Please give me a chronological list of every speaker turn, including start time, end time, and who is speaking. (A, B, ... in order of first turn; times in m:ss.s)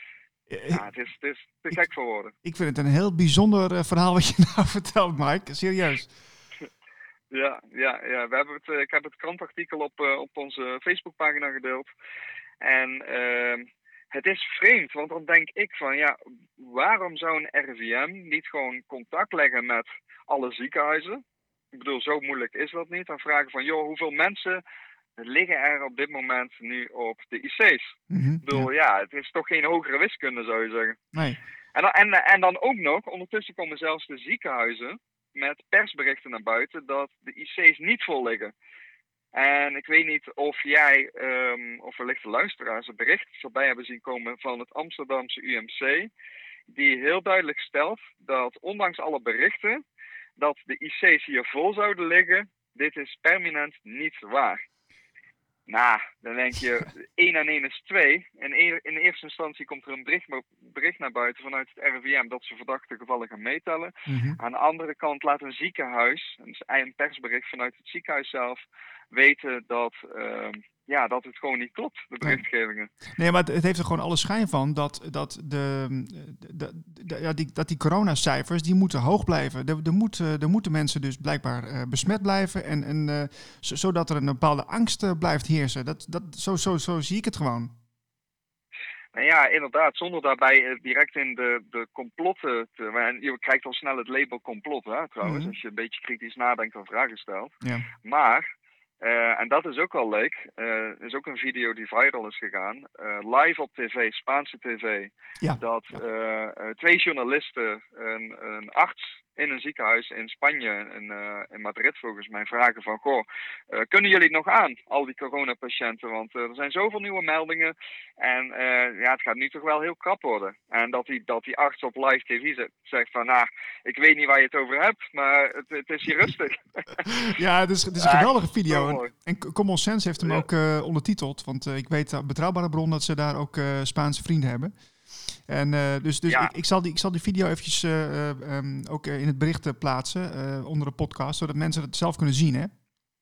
0:00.5-0:00.8 A
0:00.7-0:02.3 B
0:02.4-0:06.1 A
0:07.3-0:11.9 B
0:12.6-0:21.2 B
0:21.7-0:24.6 B
0:25.2-0:31.0 B
0:28.1-0:28.7 A
0:31.8-0:38.5 B
0:39.3-0:46.1 B
0:46.7-0:49.8 B
0:50.4-0:54.6 B
0:55.7-1:12.9 B
1:04.1-1:04.4 A
1:13.2-1:27.7 A
1:29.2-1:37.5 B
1:35.2-1:35.5 A
1:38.0-1:38.4 B
1:39.0-2:07.2 B
1:45.4-1:46.0 A
2:07.3-2:22.7 A
2:08.0-2:09.1 B